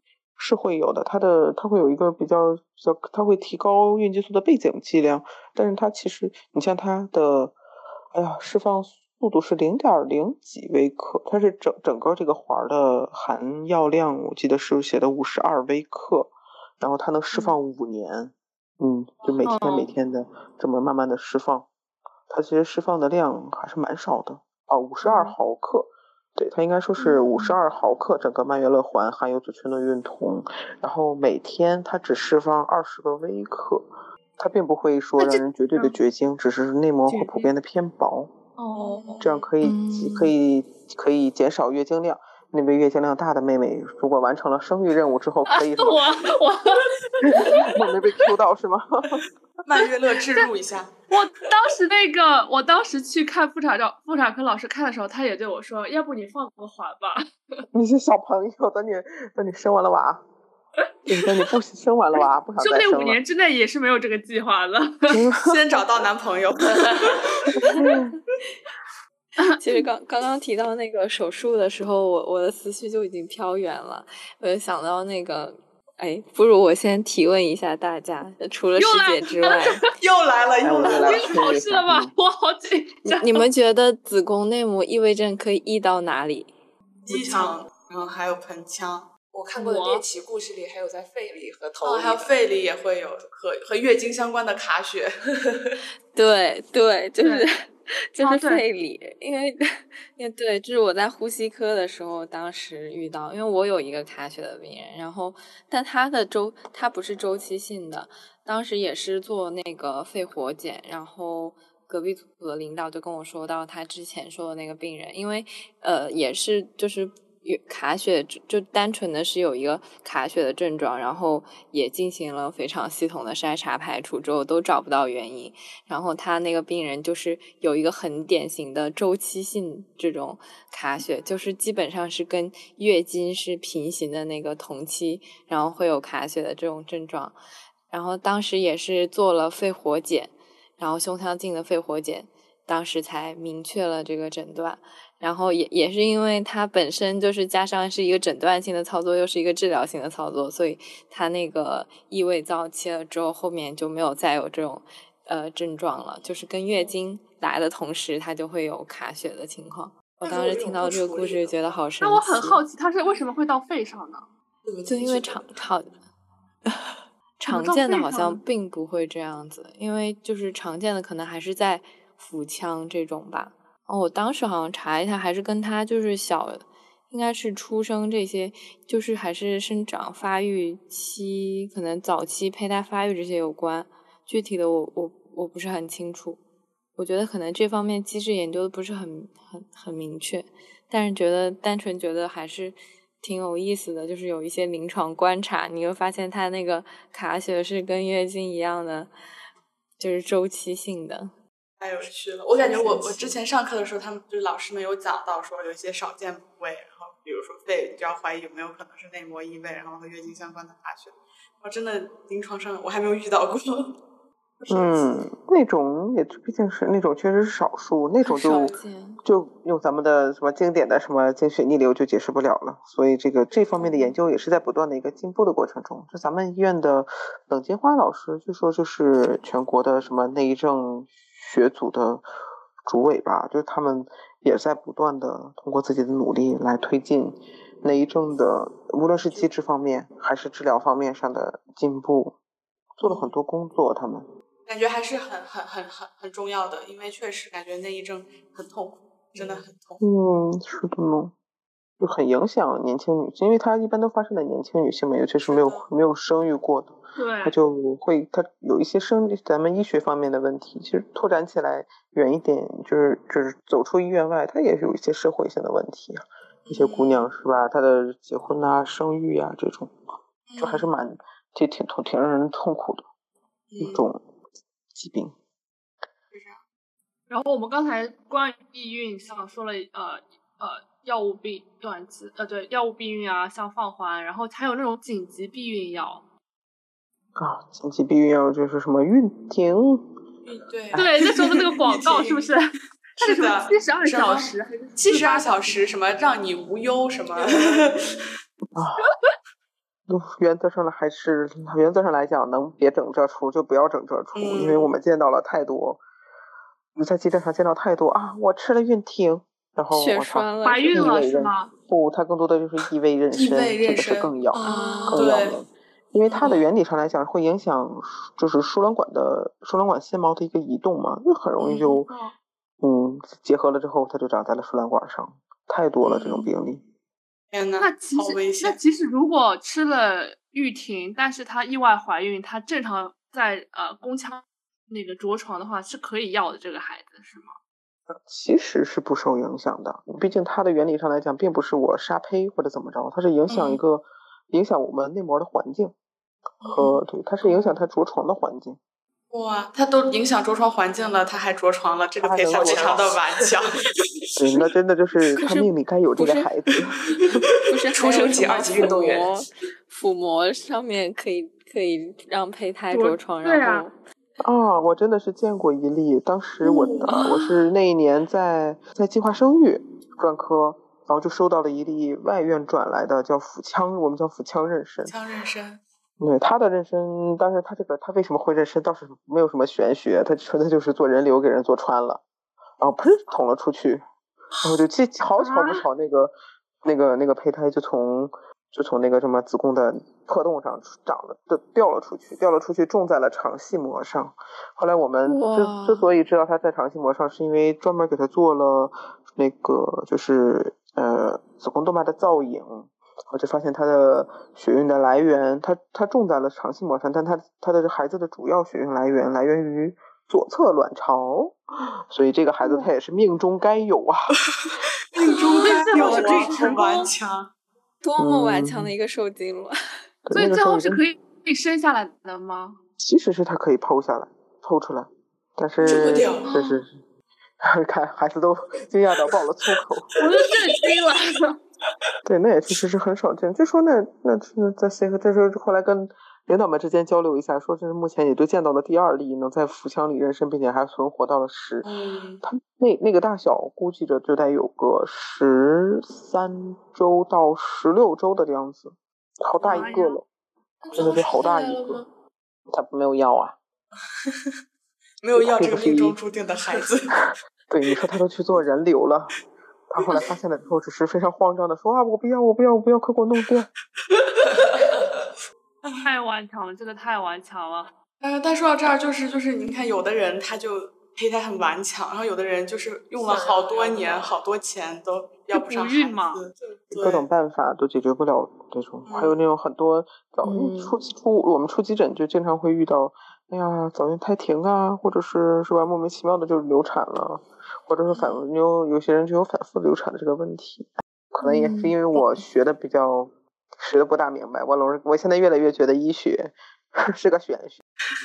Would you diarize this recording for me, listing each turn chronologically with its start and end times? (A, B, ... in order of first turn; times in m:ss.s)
0:00.4-0:07.6 A
0:08.1-0:21.7 A
0:19.4-0:19.9 B
0:22.3-0:38.3 A
0:25.0-0:25.3 B
0:27.0-0:27.6 B
0:35.2-0:36.0 B
0:37.1-0:37.5 B
0:38.6-0:39.2 B
0:38.8-0:40.3 C
0:39.2-0:46.3 A
0:45.5-0:48.2 B
0:47.2-0:49.2 A
0:49.6-0:51.0 C
0:51.1-0:57.6 B
0:57.7-1:00.2 A
1:00.8-1:01.5 B
1:01.1-1:03.2 A
1:02.6-1:05.2 B
1:05.1-1:05.6 A
1:05.4-1:07.5 C
1:06.7-1:07.9 B
1:07.7-1:08.0 D
1:07.7-1:08.1 A
1:09.4-1:09.8 B
1:09.5-1:19.8 D
1:18.8-1:19.9 B
1:19.9-1:21.4 C
1:20.6-1:22.1 A
1:20.8-1:23.4 B
1:23.0-1:26.5 D
1:27.1-1:27.6 E
1:27.1-1:29.1 C
1:29.3-1:32.3 E
1:29.5-1:30.0 B
1:31.8-1:35.1 C
1:36.1-2:17.4 D
1:37.2-1:37.4 B
1:38.2-1:38.6 B
2:17.9-2:42.6 D
2:40.2-2:41.8 E
2:42.0-2:44.2 B
2:44.6-2:45.4 E
2:44.8-2:45.9 D
2:46.7-3:06.4 D
2:47.5-2:48.4 B
3:07.0-3:19.1 D
3:20.0-3:21.3 D
3:21.8-3:33.9 C
3:22.6-3:23.4 E
3:34.7-3:52.2 A
3:38.2-3:39.2 D
3:43.8-3:44.1 D
3:52.8-4:02.4 A
4:03.0-4:04.2 A
4:03.0-4:03.3 C
4:04.6-4:10.0 C
4:09.4-4:11.3 A
4:12.0-4:29.9 A
4:15.4-4:15.8 C
4:17.1-4:17.6 B
4:26.6-4:27.3 C
4:30.5-4:30.9 C
4:30.6-4:33.0 A
4:33.7-4:34.0 C
4:33.8-4:34.2 A
4:34.9-4:35.3 A
4:36.3-4:36.6 C
4:37.3-4:46.2 B
4:47.4-4:50.1 A
4:50.4-4:52.5 C
4:50.9-4:51.2 A
4:50.9-4:55.8 B
4:53.2-4:58.2 C
4:58.7-4:59.1 A
4:59.0-4:59.3 B
5:00.1-5:06.0 A
5:04.3-5:04.9 C
5:06.9-5:22.1 A
5:09.9-5:11.3 D
5:10.6-5:11.7 B
5:13.3-5:15.6 C
5:14.6-5:15.3 D
5:16.2-5:16.7 C
5:21.6-5:22.0 C
5:22.1-5:22.3 B
5:22.8-5:26.8 A
5:26.0-5:26.5 C
5:27.5-5:28.8 C
5:27.8-5:37.5 B
5:38.1-5:45.9 A
5:43.5-5:43.8 C
5:46.6-5:47.0 C
5:46.6-5:48.8 A
5:49.3-5:54.0 C
5:52.2-5:53.1 A
5:52.5-5:53.3 E
5:54.4-5:57.2 A
5:56.2-5:56.5 D
5:57.6-6:03.9 D
5:58.0-5:59.4 E
5:58.0-5:58.9 C
6:02.9-6:03.9 B
6:04.4-6:15.1 A
6:15.0-6:15.8 C
6:16.2-6:22.2 A
6:22.8-6:24.0 A
6:24.6-6:54.4 A
6:25.4-6:25.8 B
6:35.2-6:36.0 D
6:54.6-6:57.5 C
6:55.4-6:57.1 B
6:55.9-6:56.4 A
6:58.0-6:59.8 D
6:58.2-6:58.9 A
7:00.2-7:01.0 A
7:00.3-7:02.8 B
7:03.0-7:07.0 A
7:05.8-7:06.5 C
7:06.4-7:06.8 B
7:07.6-7:10.1 A
7:10.2-7:11.6 B
7:10.5-7:10.8 C
7:12.2-7:21.9 A
7:21.8-7:22.4 C
7:22.4-7:30.2 A
7:29.6-7:30.2 B
7:30.9-7:31.9 E
7:30.9-7:31.4 C
7:30.9-7:32.0 A
7:32.7-7:33.6 A
7:34.2-7:34.5 C
7:35.2-7:37.1 C
7:35.4-7:36.2 A
7:37.1-7:39.4 A
7:39.9-7:43.7 A
7:44.1-7:45.2 C
7:46.0-7:47.9 B
7:48.2-7:57.2 C
7:53.2-7:54.3 E
7:55.5-7:56.4 B
7:56.9-8:17.8 A
7:59.0-7:59.4 C